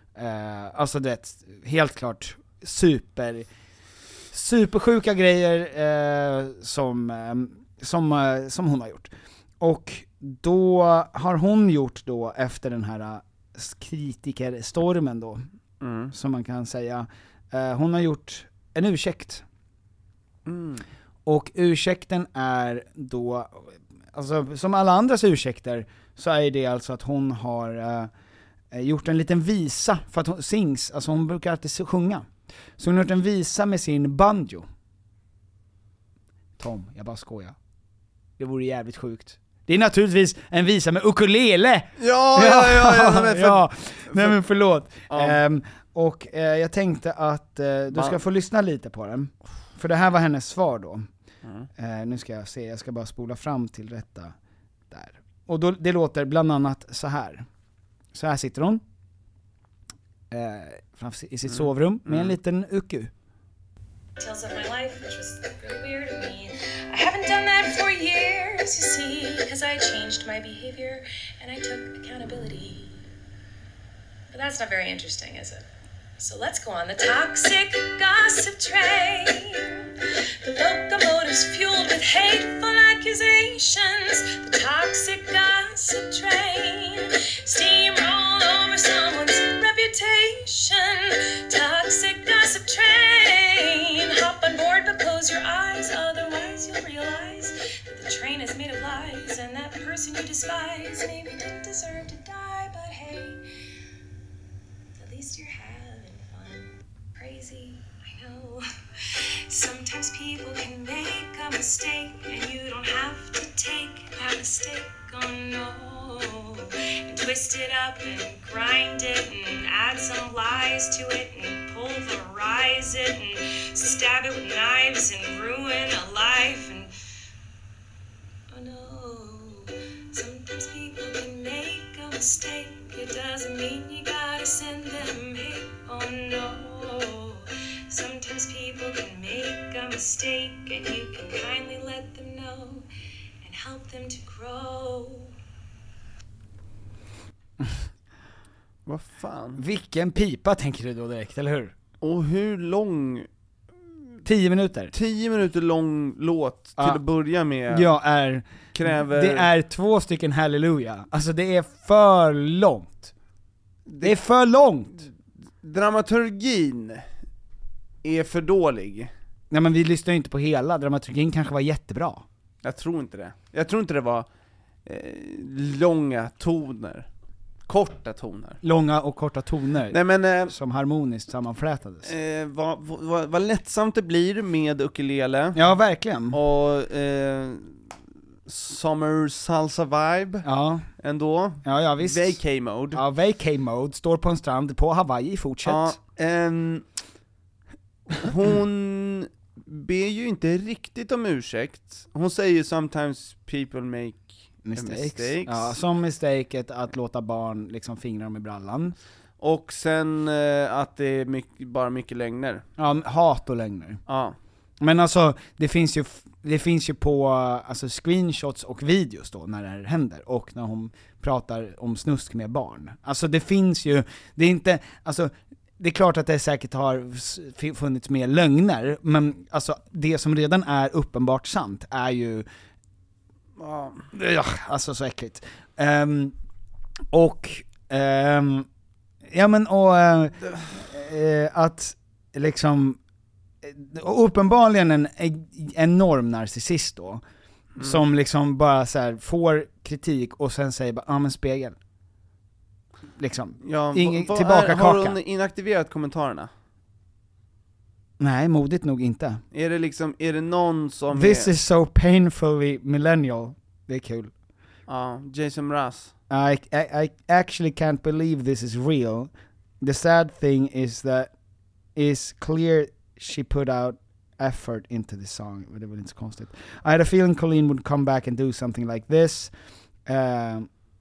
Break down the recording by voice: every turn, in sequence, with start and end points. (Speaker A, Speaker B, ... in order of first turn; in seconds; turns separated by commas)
Speaker A: 0.2-3.5, Speaker A: 4.3-9.1, Speaker A: 9.6-15.4, Speaker B: 15.8-16.1, Speaker A: 16.1-19.4, Speaker B: 20.5-20.8, Speaker A: 21.3-28.1, Speaker A: 28.7-34.7, Speaker A: 36.6-37.5, Speaker A: 38.4-51.1, Speaker B: 42.0-44.4, Speaker B: 45.1-45.4, Speaker B: 47.9-48.2, Speaker A: 51.8-54.4, Speaker A: 54.9-57.5, Speaker A: 58.1-58.8, Speaker A: 60.3-63.1, Speaker B: 61.5-62.4, Speaker C: 64.2-73.0, Speaker C: 74.3-75.7, Speaker C: 76.2-79.9, Speaker C: 80.4-103.4, Speaker C: 105.0-108.7, Speaker C: 109.5-126.9, Speaker C: 128.5-142.9, Speaker C: 143.4-145.3, Speaker B: 148.9-149.6, Speaker A: 149.6-151.7, Speaker B: 152.0-153.3, Speaker A: 154.2-154.9, Speaker B: 154.9-157.9, Speaker A: 157.7-163.1, Speaker B: 158.7-159.5, Speaker B: 163.9-164.2, Speaker A: 164.0-165.1, Speaker B: 165.6-167.1, Speaker B: 168.0-169.1, Speaker A: 169.5-172.2, Speaker B: 172.6-174.3, Speaker B: 174.8-177.1, Speaker B: 177.7-178.6, Speaker A: 178.6-182.1, Speaker B: 179.9-180.5, Speaker B: 182.0-185.6, Speaker A: 185.6-186.4, Speaker B: 186.3-187.8, Speaker B: 188.5-190.5, Speaker A: 190.4-190.9, Speaker B: 191.0-193.0, Speaker A: 191.6-192.4, Speaker A: 192.9-196.0, Speaker B: 195.7-196.9, Speaker B: 198.2-205.8, Speaker A: 204.7-209.0, Speaker B: 209.4-212.7, Speaker A: 212.8-214.0, Speaker B: 214.1-214.4, Speaker A: 214.8-232.5, Speaker B: 233.6-234.1, Speaker A: 234.1-236.3, Speaker A: 237.1-238.7, Speaker A: 239.3-243.0, Speaker A: 243.6-247.2, Speaker A: 247.8-251.8, Speaker A: 253.2-255.2, Speaker B: 253.6-256.5, Speaker A: 258.2-259.4, Speaker B: 259.5-261.5, Speaker A: 261.1-264.3, Speaker B: 264.9-266.1, Speaker A: 266.3-269.3, Speaker A: 269.8-271.3, Speaker A: 272.0-279.5, Speaker A: 280.1-280.7